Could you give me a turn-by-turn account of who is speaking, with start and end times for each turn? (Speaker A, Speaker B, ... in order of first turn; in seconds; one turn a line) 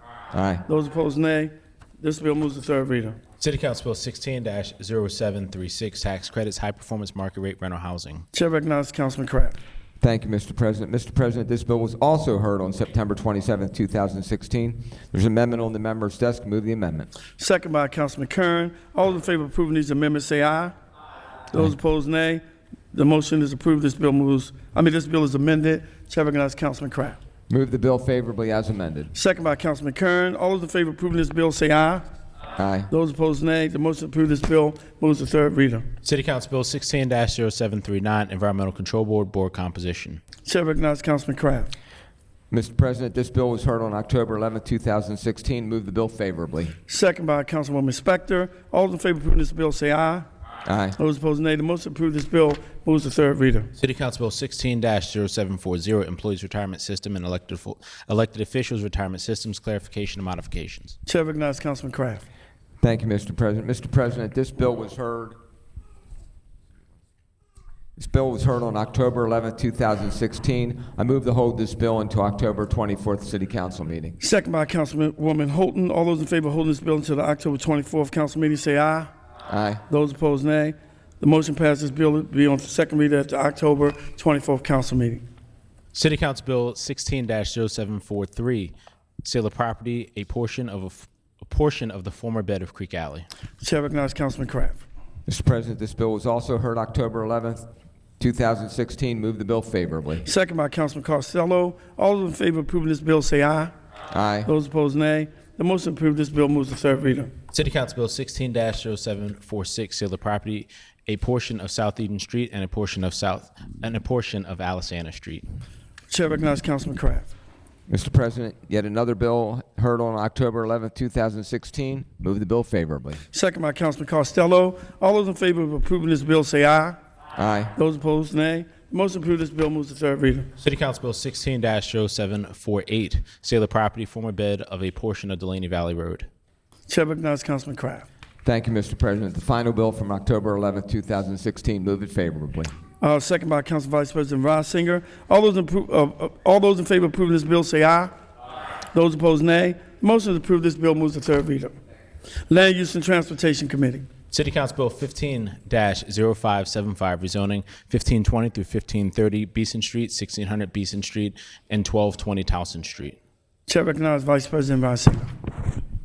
Speaker A: 0.3-0.6
Speaker B: 0.7-3.2
Speaker C: 3.4-8.2
Speaker B: 8.3-9.6
Speaker A: 10.0-17.1
Speaker B: 17.4-20.7
Speaker B: 21.5-22.4
Speaker B: 22.9-27.2
Speaker A: 27.5-29.1
Speaker B: 29.1-32.0
Speaker A: 32.6-32.9
Speaker B: 32.9-35.9
Speaker C: 36.0-40.2
Speaker B: 40.4-41.7
Speaker A: 42.5-46.8
Speaker B: 46.9-50.2
Speaker A: 50.6-51.0
Speaker B: 51.0-53.7
Speaker C: 53.8-61.0
Speaker B: 61.0-62.2
Speaker A: 62.8-65.3
Speaker A: 68.0-74.2
Speaker B: 74.2-79.1
Speaker A: 79.5-79.8
Speaker B: 79.9-85.2
Speaker C: 85.9-93.3
Speaker B: 93.6-94.8
Speaker A: 95.3-97.7
Speaker A: 98.2-100.2
Speaker B: 100.2-103.7
Speaker A: 104.1-104.5
Speaker B: 104.4-107.3
Speaker C: 107.5-115.4
Speaker B: 116.1-117.3
Speaker A: 117.9-123.2
Speaker B: 123.3-127.0
Speaker A: 127.3-127.7
Speaker B: 127.8-130.5
Speaker C: 130.6-136.3
Speaker B: 136.9-138.1
Speaker A: 138.4-142.7
Speaker B: 143.0-148.1
Speaker B: 148.9-151.7
Speaker B: 152.5-154.1
Speaker C: 154.3-163.2
Speaker B: 163.7-165.3